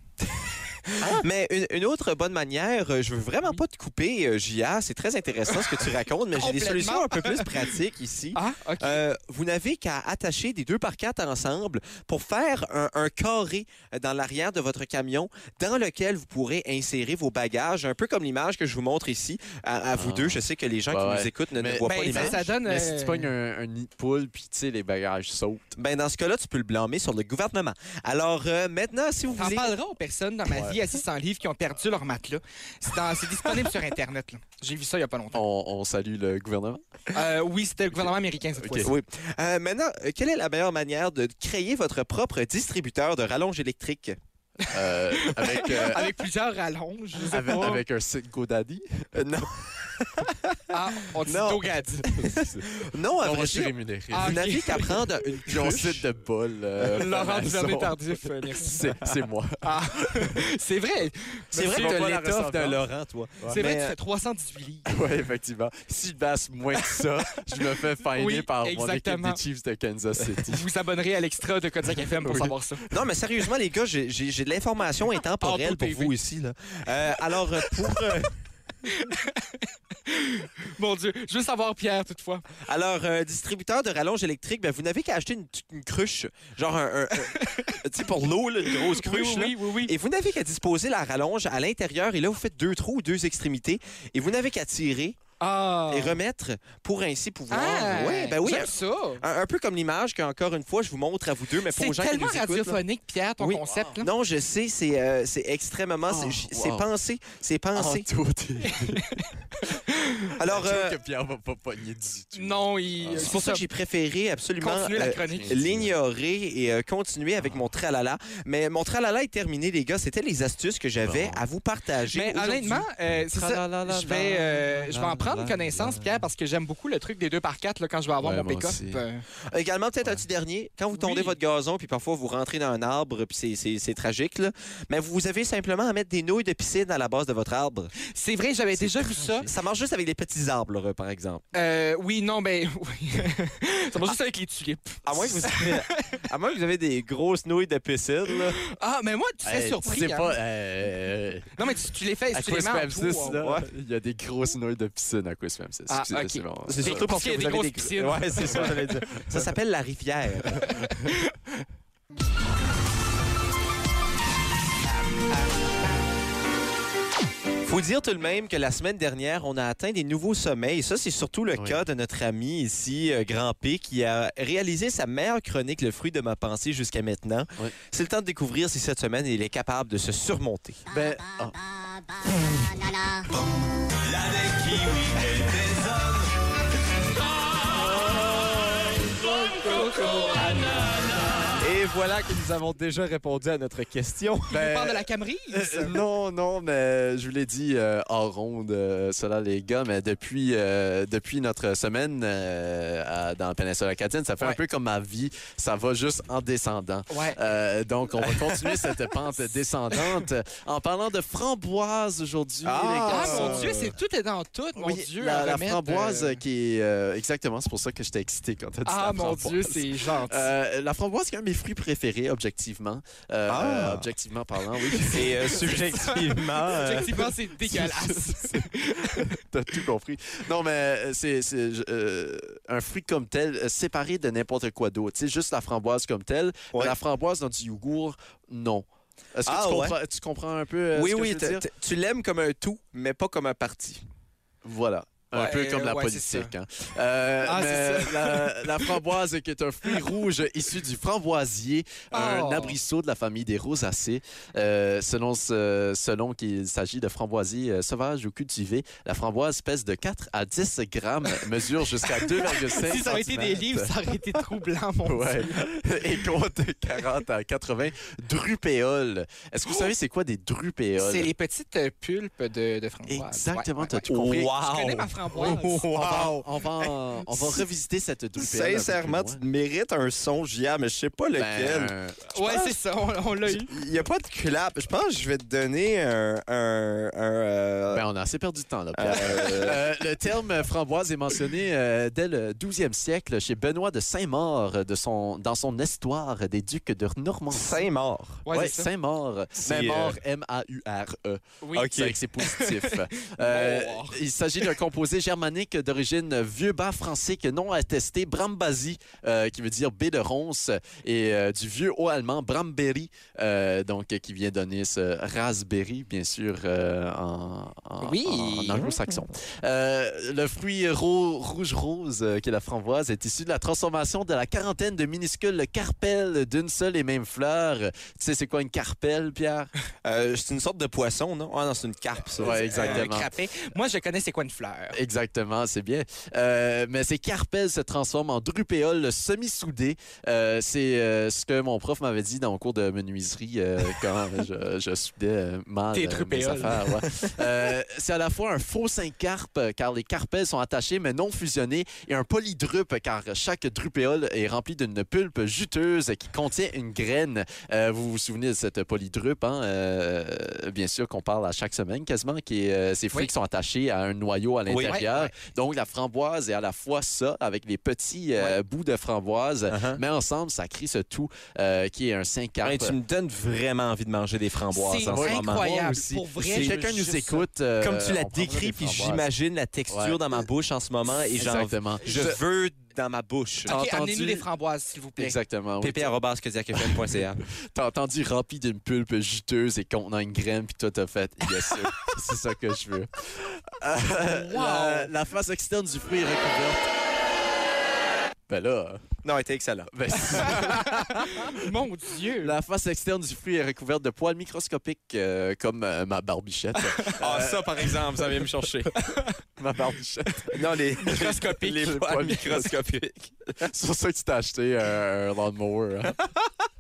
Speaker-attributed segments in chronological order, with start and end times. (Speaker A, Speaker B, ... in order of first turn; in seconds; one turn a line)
Speaker A: 0.2-22.4
Speaker B: 6.3-7.7
Speaker B: 8.3-9.0
Speaker C: 19.9-25.7
Speaker B: 21.8-23.3
Speaker A: 25.8-29.7
Speaker B: 29.4-35.4
Speaker C: 30.4-30.8
Speaker C: 35.3-36.8
Speaker B: 37.1-38.9
Speaker C: 37.9-38.9
Speaker A: 38.8-44.2
Speaker B: 44.6-47.8
Speaker C: 44.7-46.2
Speaker C: 47.3-49.1
Speaker A: 49.1-50.7
Speaker B: 50.7-52.1
Speaker A: 51.2-56.0
Speaker C: 52.1-54.5
Speaker B: 54.1-55.0
Speaker C: 55.4-60.4
Speaker B: 56.8-58.9
Speaker B: 59.6-62.0
Speaker C: 61.5-62.8
Speaker A: 61.5-63.9
Speaker C: 63.4-63.7
Speaker B: 63.5-64.9
Speaker C: 64.9-70.7
Speaker B: 66.8-67.0
Speaker B: 68.1-69.4
Speaker B: 70.4-72.8
Speaker C: 72.0-73.0
Speaker A: 72.9-78.3
Speaker B: 75.4-76.1
Speaker B: 77.7-78.0
Speaker B: 78.8-82.5
Speaker A: 82.6-95.2
Speaker B: 87.2-87.8
Speaker B: 88.7-89.9
Speaker B: 95.4-96.2
Speaker A: 95.9-102.8
Speaker B: 97.5-99.2
Speaker B: 101.7-104.1
Speaker A: 103.4-108.1
Speaker C: 103.6-104.0
Speaker C: 106.1-106.9
Speaker C: 107.7-109.3
Speaker B: 108.6-110.3
Speaker A: 110.4-111.0
Speaker C: 110.4-113.3
Speaker B: 112.3-113.6
Speaker A: 113.1-122.8
Speaker B: 114.6-115.6
Speaker C: 115.2-115.9
Speaker C: 121.0-121.4
Speaker B: 122.1-129.2
Speaker C: 123.1-126.2
Speaker C: 128.2-129.0
Speaker A: 129.5-137.9
Speaker B: 131.0-131.3
Speaker B: 138.0-139.5
Speaker C: 138.8-139.5
Speaker A: 139.4-141.4
Speaker B: 141.5-146.2
Speaker A: 145.1-148.6
Speaker B: 148.6-150.3
Speaker C: 149.4-151.7
Speaker B: 151.6-153.4
Speaker C: 152.3-157.1
Speaker A: 153.4-153.7
Speaker B: 155.9-158.9
Speaker A: 156.7-160.7
Speaker B: 160.5-161.3
Speaker C: 160.6-161.1
Speaker A: 167.6-180.8
Speaker C: 171.6-171.8
Speaker C: 180.9-181.6
Speaker A: 183.9-186.3
Speaker A: 187.6-191.0
Speaker B: 189.7-190.5
Speaker A: 191.5-194.5
Speaker B: 194.5-196.0
Speaker C: 194.5-213.8
Speaker B: 207.1-207.4
Speaker A: 212.6-213.9
Speaker B: 213.1-216.4
Speaker C: 214.8-226.2
Speaker B: 218.8-220.5
Speaker A: 223.5-224.1
Speaker A: 225.0-227.3
Speaker B: 225.5-229.4
Speaker C: 227.6-241.6
Speaker A: 239.4-239.9
Speaker A: 240.9-244.0
Speaker C: 244.6-263.9
Speaker B: 245.3-246.5
Speaker B: 247.4-248.9
Speaker B: 252.1-252.8
Speaker B: 262.0-265.7
Speaker C: 265.0-271.3
Speaker B: 271.0-275.9
Speaker C: 273.1-274.6
Speaker A: 274.1-276.4
Speaker C: 275.3-279.4
Speaker A: 277.3-277.6
Speaker A: 278.4-282.7
Speaker C: 281.4-282.2
Speaker B: 282.3-283.7
Speaker A: 283.5-288.0
Speaker C: 287.9-297.9
Speaker A: 288.9-289.8
Speaker A: 297.5-298.4
Speaker B: 298.4-298.9
Speaker C: 298.5-329.7
Speaker A: 299.6-300.2
Speaker B: 301.6-304.2
Speaker A: 301.7-302.2
Speaker B: 318.0-318.9
Speaker A: 330.0-333.1
Speaker C: 332.4-333.3
Speaker B: 332.4-335.0
Speaker C: 334.9-373.0
Speaker B: 345.9-347.0
Speaker A: 364.7-365.0
Speaker B: 364.8-365.3
Speaker A: 369.7-370.0
Speaker A: 372.6-375.7
Speaker B: 374.7-377.4
Speaker C: 375.1-379.2
Speaker A: 376.4-377.1
Speaker A: 377.8-383.8
Speaker C: 379.9-380.4
Speaker C: 381.3-382.4
Speaker C: 383.6-384.4
Speaker B: 383.7-385.4
Speaker C: 385.2-386.1
Speaker A: 385.8-387.4
Speaker C: 386.7-396.9
Speaker B: 394.2-395.1
Speaker C: 398.5-399.1
Speaker A: 399.2-400.5
Speaker C: 399.9-401.7
Speaker B: 400.2-402.6
Speaker C: 402.4-408.4
Speaker B: 406.8-407.1
Speaker A: 407.2-408.9
Speaker B: 408.9-409.4
Speaker C: 409.6-412.7
Speaker A: 410.5-413.6
Speaker B: 411.0-412.0
Speaker C: 413.6-416.2